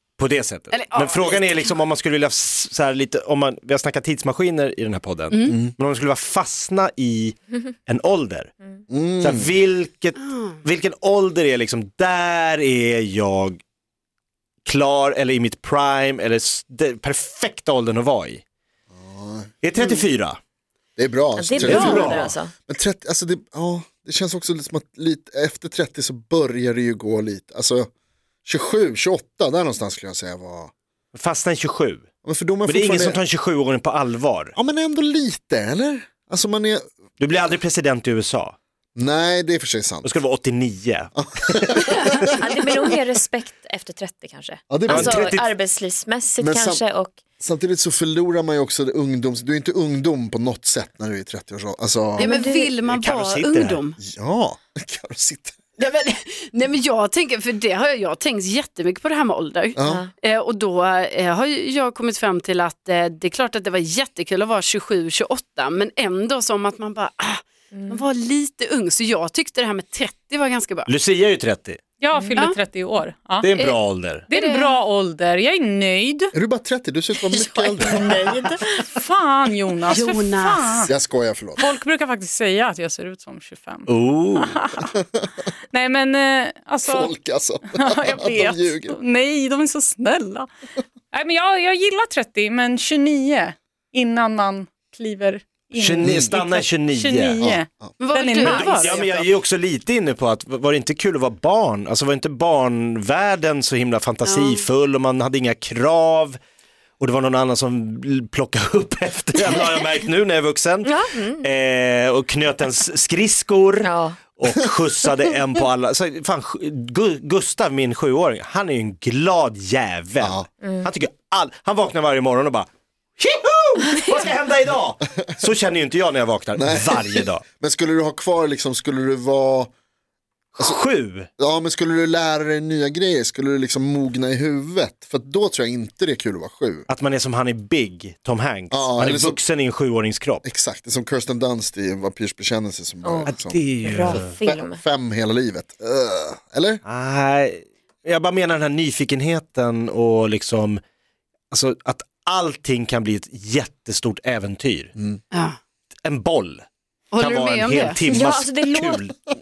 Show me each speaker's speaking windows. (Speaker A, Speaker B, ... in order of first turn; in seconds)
Speaker A: 0.2-8.5, 9.2-13.6, 14.6-18.4, 19.6-20.4, 21.6-22.3, 31.1-32.0, 32.6-34.5, 37.2-38.5, 40.0-42.3, 44.9-45.5, 52.9-53.8, 70.9-71.8, 73.4-74.3, 83.9-84.5, 95.8-97.5, 98.4-106.4, 107.0-127.4, 130.5-131.3, 136.9-140.4, 143.2-144.3, 146.8-150.8, 151.5-154.9, 156.0-156.7, 157.2-159.1
Speaker B: 0.7-1.7, 5.3-5.6, 10.2-10.6, 52.2-54.0, 55.8-70.9, 74.3-74.8, 79.9-80.8, 98.0-99.3, 104.2-104.6, 157.1-158.0
Speaker C: 8.9-9.5, 18.9-19.5, 21.0-27.9, 28.4-30.7, 32.2-33.2, 34.5-36.8, 39.0-40.1, 41.1-42.1, 44.7-45.3, 46.4-46.8, 47.4-52.4, 54.0-55.6, 59.8-60.0, 76.3-78.2, 80.9-81.6, 86.8-89.0, 96.0-96.3, 97.4-97.9, 126.6-129.7, 131.4-136.9, 138.7-139.4, 140.4-146.8
Speaker D: 21.3-22.5, 42.3-47.2, 52.2-52.7, 59.8-60.1, 67.7-68.0, 72.1-72.4, 77.2-78.9, 110.8-111.5, 113.8-114.2, 120.6-120.9, 143.0-144.8, 158.0-159.1
Speaker E: 72.0-73.5, 74.2-76.3, 78.7-80.9, 81.5-85.0, 85.7-87.1, 87.7-90.5, 91.1-99.0